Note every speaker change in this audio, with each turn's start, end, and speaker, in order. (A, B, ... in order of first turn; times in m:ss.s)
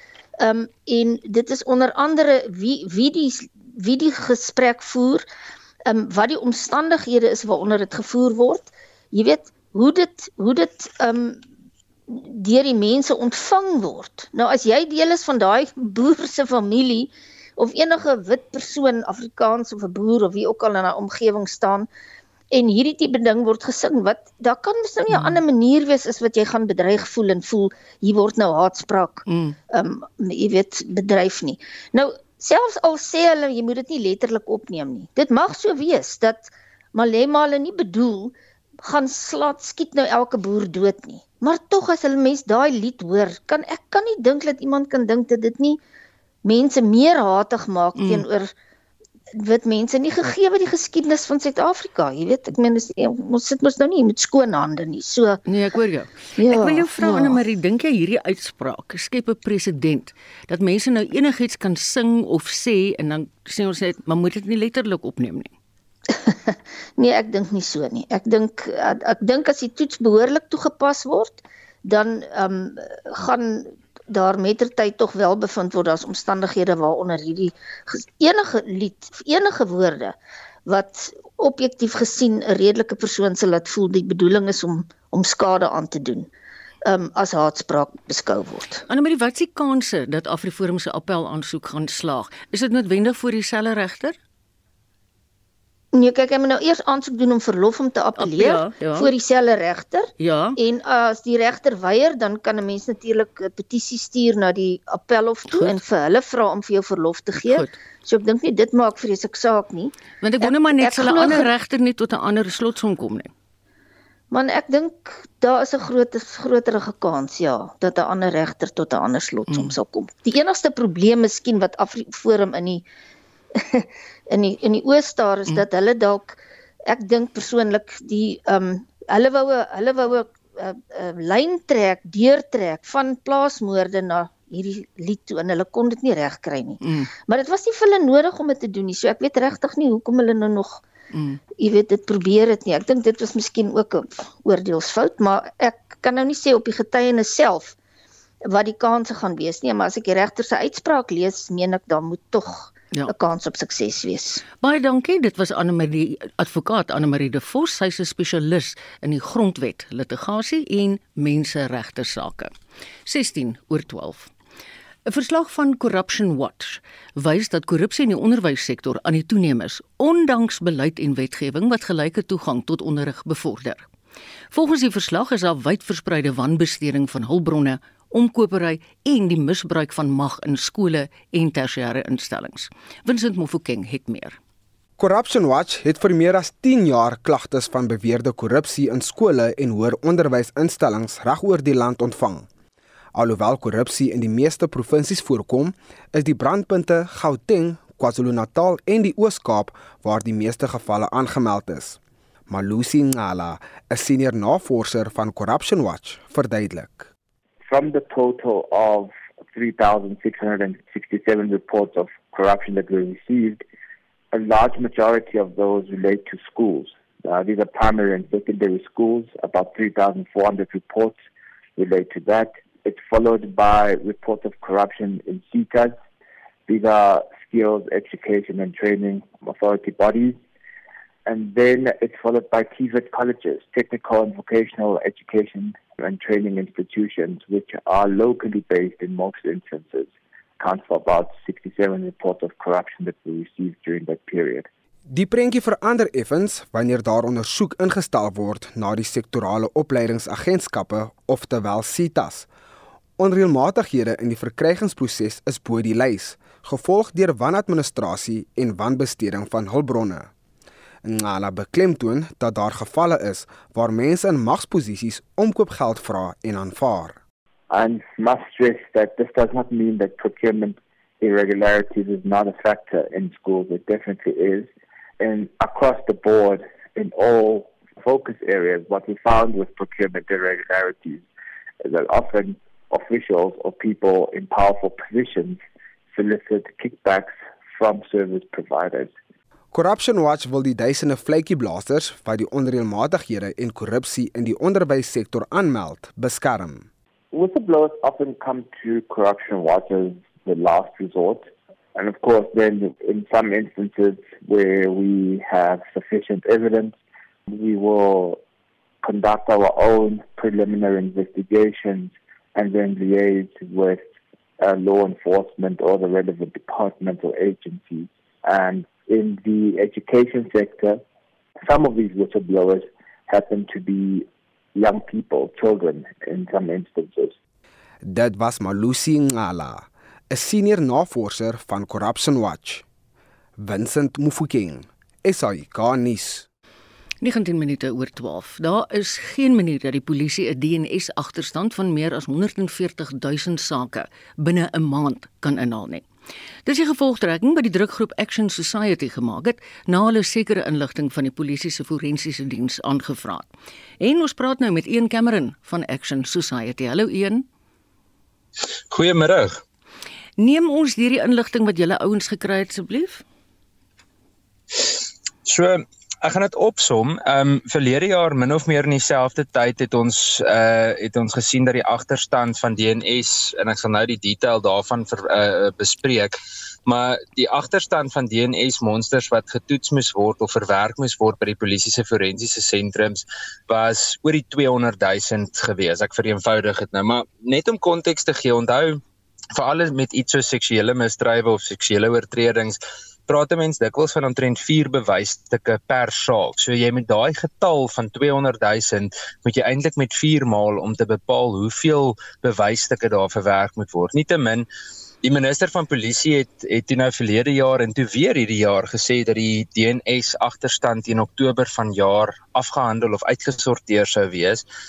0:00.4-0:05.2 A
0:05.9-0:11.4 A
0:12.1-0:21.9 A
0:22.5-0:45.8 A
0:25.1-0:25.4 B
0:29.3-0:29.6 B
0:46.4-0:48.5 A
0:48.0-0:48.2 B
0:49.4-0:55.4 A
0:55.5-1:05.5 B
0:56.4-0:57.4 A
1:06.1-1:20.2 A
1:20.7-1:26.3 A
1:26.9-1:28.8 A
1:28.9-1:34.2 B
1:35.9-1:51.5 A
1:38.2-1:39.1 B
1:40.2-1:40.6 B
1:45.5-1:45.8 B
1:47.4-1:47.8 B
1:50.2-1:53.3 B
1:54.3-2:02.8 A
2:03.6-2:20.8 A
2:16.8-2:17.1 B
2:21.1-2:21.4 B
2:21.6-2:27.8 A
2:28.5-2:34.4 A
2:34.6-2:42.5 B
2:43.1-2:44.3 B
2:45.1-2:53.9 B
2:54.5-3:04.4 B
3:05.0-3:12.5 C
3:13.2-3:27.1 C
3:27.7-3:33.6 D
3:34.3-3:41.2 D
3:41.8-3:46.0 D
3:46.7-3:50.4 D
3:51.3-4:04.7 D
4:05.1-4:12.5 C
4:13.2-4:20.3 C
4:21.0-4:27.2 C
4:27.7-4:34.7 D
4:35.2-4:41.3 D
4:41.8-4:45.6 D
4:46.1-4:49.2 D
4:49.7-4:56.9 C
4:57.3-5:07.0 D
5:07.5-5:08.4 D
5:09.0-5:14.0 D
5:14.6-5:21.0 D
5:21.6-5:27.4 D
5:28.0-5:32.8 C
5:33.6-5:36.5 C
5:37.2-5:46.1 B
5:46.7-5:53.5 B
5:54.0-5:57.4 B
5:58.9-5:59.6 E
6:00.4-6:03.2 B
6:05.5-6:29.0 E
6:29.6-6:44.7 E
6:45.2-6:54.6 E